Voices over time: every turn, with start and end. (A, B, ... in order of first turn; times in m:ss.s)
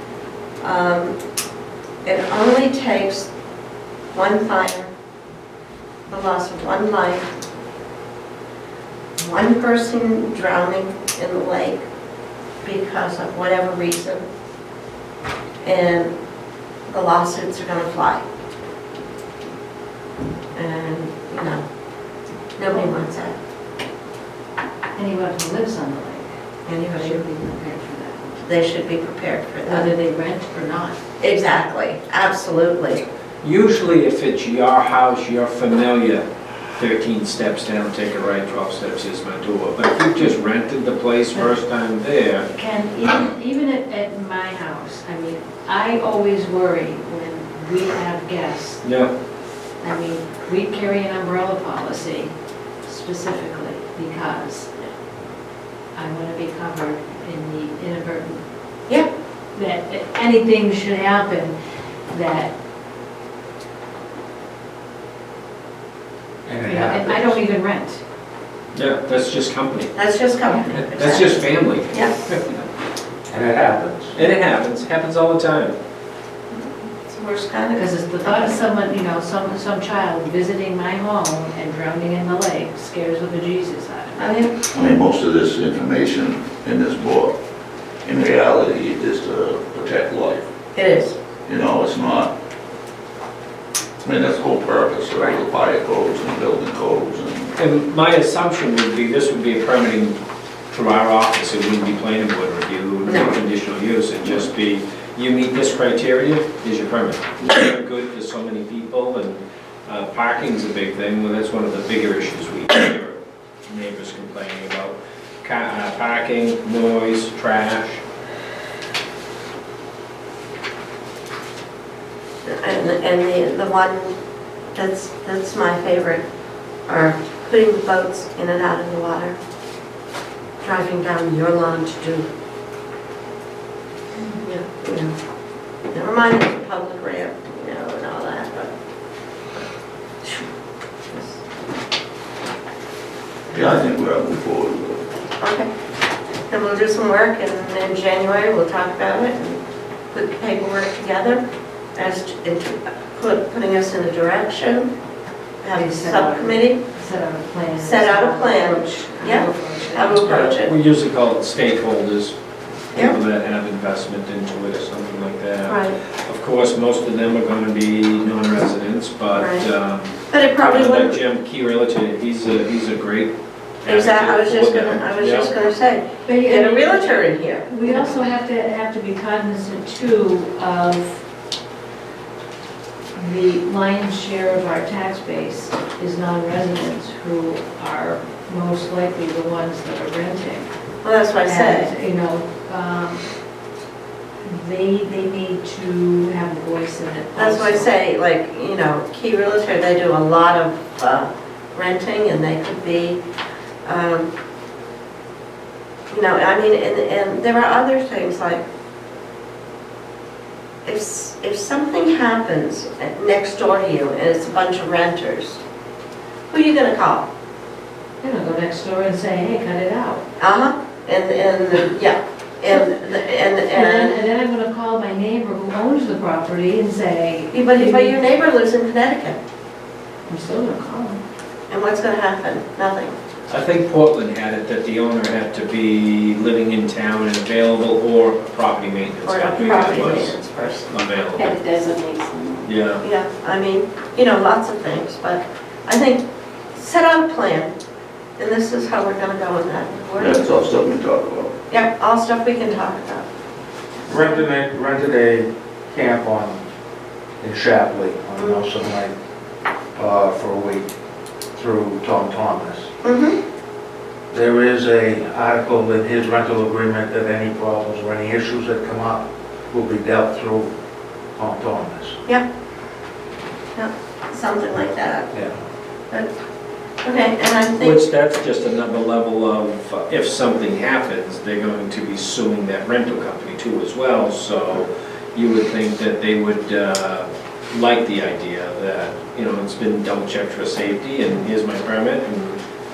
0:00.6-0:01.2 A
0:02.0-0:03.3 A
0:04.1-0:04.9 A
0:06.1-0:07.3 A
0:09.2-0:11.8 A
0:12.6-0:14.2 A
0:15.6-0:16.1 A
0:16.9-0:18.2 A
0:20.6-0:21.6 A
0:22.6-0:23.4 A
0:25.0-0:26.3 B
0:26.7-0:27.2 A
0:27.0-0:28.4 B
0:28.4-0:29.9 A
0:29.6-0:31.0 B
0:31.2-0:33.0 A
0:33.4-0:36.2 C
0:36.8-0:42.5 C
0:42.5-0:48.8 B
0:48.8-0:49.1 C
0:49.8-0:52.3 B
0:52.9-0:54.7 B
0:56.0-0:58.4 B
0:59.5-1:01.6 B
1:02.1-1:02.5 B
1:06.4-1:07.4 D
1:06.6-1:08.0 B
1:08.7-1:09.9 C
1:10.0-1:12.2 A
1:10.7-1:12.7 C
1:13.3-1:14.2 D
1:14.1-1:15.8 C
1:17.0-1:18.6 A
1:17.8-1:24.3 B
1:24.2-1:24.5 A
1:24.7-1:27.4 E
1:28.0-1:30.5 E
1:30.8-1:31.2 A
1:31.5-1:32.3 E
1:34.0-1:37.5 E
1:37.6-1:40.2 C
1:40.7-1:58.0 C
1:43.1-1:43.3 A
2:02.4-2:04.2 A
2:04.7-2:06.2 A
2:06.9-2:09.4 A
2:10.6-2:12.3 A
2:14.4-2:15.1 A
2:15.9-2:18.7 A
2:21.1-2:21.4 A
2:23.5-2:25.1 E
2:25.4-2:25.7 A
2:26.5-2:31.4 A
2:32.0-2:34.9 A
2:35.6-2:36.8 A
2:35.7-2:40.3 B
2:37.8-2:40.7 A
2:40.1-2:42.4 C
2:42.9-2:53.3 C
2:45.7-2:46.0 B
2:49.3-2:49.7 A
2:50.3-2:51.2 A
2:53.8-2:55.5 C
2:53.9-2:58.1 A
2:56.2-3:01.2 B
3:03.2-3:10.7 B
3:11.0-3:11.9 A
3:11.4-3:13.2 B
3:14.4-3:17.9 B
3:17.4-3:23.2 A
3:23.9-3:24.3 A
3:26.1-3:28.6 A
3:30.8-3:35.6 A
3:36.5-3:37.3 A
3:38.2-3:40.2 B
3:40.4-3:44.2 A
3:42.7-3:43.0 B
3:43.6-3:48.2 B
3:47.5-3:49.4 A
3:50.3-3:51.2 B
3:51.7-3:53.1 A
3:53.5-4:00.4 C
3:59.2-4:01.0 A
4:00.9-4:01.5 C
4:01.4-4:02.7 B
4:02.6-4:03.0 C
4:03.0-4:07.7 A
4:08.4-4:10.4 A
4:10.2-4:11.5 E
4:11.7-4:13.3 A
4:14.1-4:16.6 D
4:17.4-4:19.1 D
4:18.4-4:18.6 A
4:19.9-4:20.9 D
4:21.6-4:22.9 D
4:23.0-4:23.4 A
4:24.3-4:30.7 D
4:31.4-4:32.2 D
4:33.8-4:35.3 A
4:35.3-4:35.6 D
4:37.0-4:38.0 A
4:37.8-4:52.6 C